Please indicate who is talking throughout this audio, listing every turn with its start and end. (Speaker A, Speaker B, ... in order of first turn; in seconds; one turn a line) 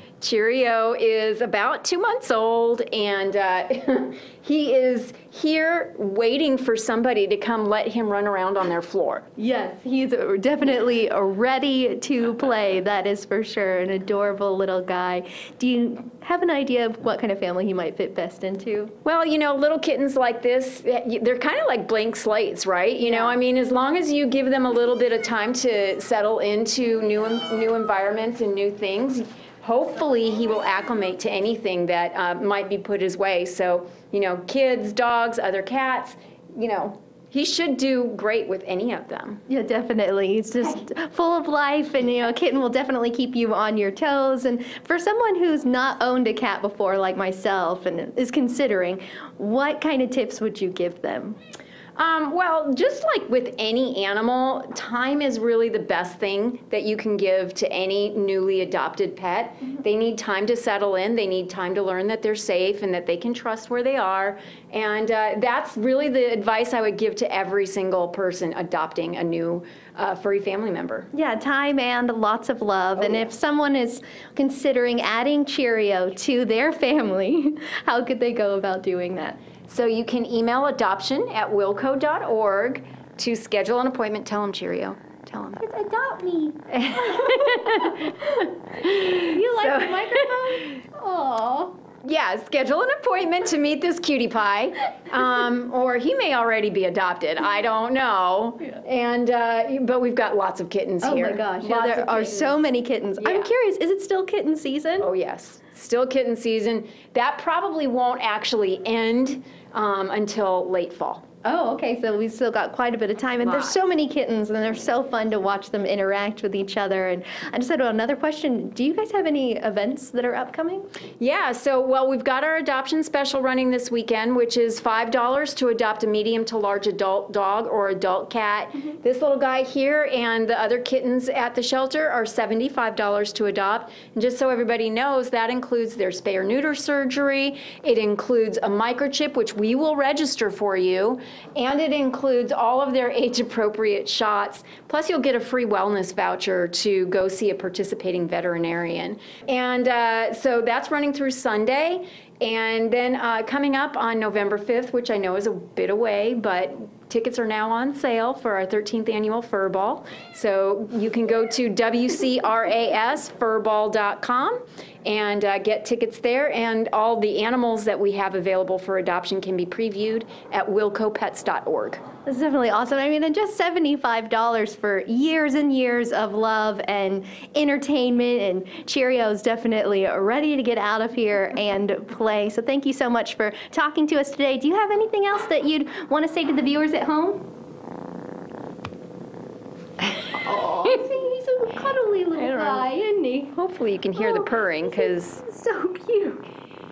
Speaker A: 0.2-9.3
Speaker B: 9.4-18.9
Speaker A: 19.1-39.4
Speaker B: 23.0-23.4
Speaker B: 39.5-51.4
Speaker A: 52.0-71.1
Speaker B: 71.1-79.4
Speaker A: 73.0-73.3
Speaker A: 79.7-85.6
Speaker B: 85.6-91.8
Speaker A: 86.7-88.1
Speaker A: 88.8-90.6
Speaker A: 92.0-102.6
Speaker B: 101.0-105.1
Speaker A: 103.2-103.5
Speaker A: 105.0-111.2
Speaker B: 111.4-120.9
Speaker A: 113.4-113.9
Speaker A: 121.2-172.0
Speaker B: 172.3-187.4
Speaker B: 190.1-193.6
Speaker A: 192.6-192.8
Speaker A: 193.5-195.4
Speaker B: 194.2-196.4